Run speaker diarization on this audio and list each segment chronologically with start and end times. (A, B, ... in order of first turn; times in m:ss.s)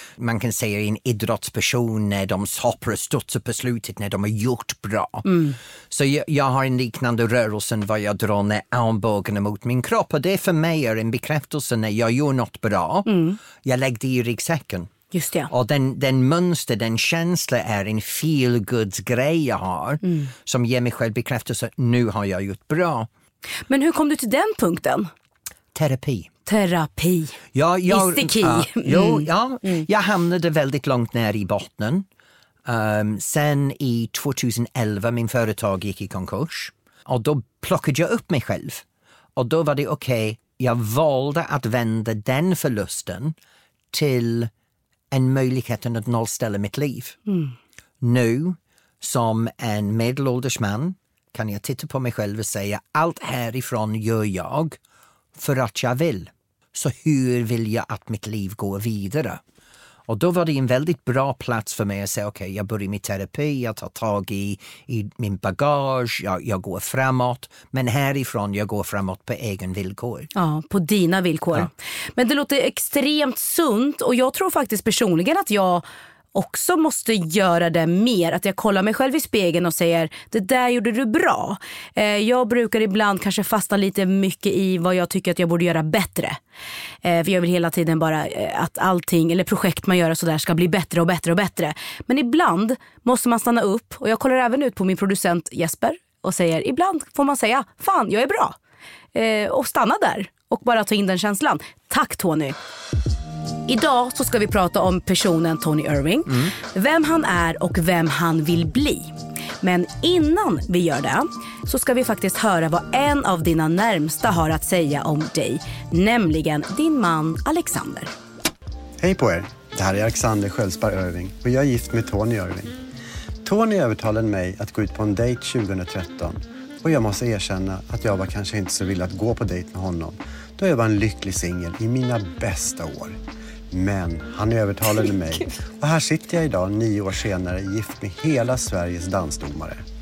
0:00.2-0:14.9 A
0:05.2-0:05.6 B
0:13.1-0:13.4 B
0:15.1-0:15.5 B
0:15.5-0:23.1 A
0:20.0-0:20.3 B
0:23.7-0:25.1 B
0:25.7-0:26.3 A
0:26.5-0:29.8 B
0:27.5-0:32.0 A
0:32.7-0:38.8 A
0:39.4-0:43.4 A
0:43.9-0:44.5 A
0:45.1-0:47.2 A
0:47.3-0:47.5 B
0:48.0-0:54.8 A
0:55.4-0:59.4 A
1:00.1-1:10.3 A
1:10.4-1:26.4 B
1:27.0-1:38.6 B
1:39.1-1:42.6 B
1:43.7-1:49.1 B
1:49.6-1:58.1 B
1:59.0-2:02.8 C
2:03.4-2:19.8 C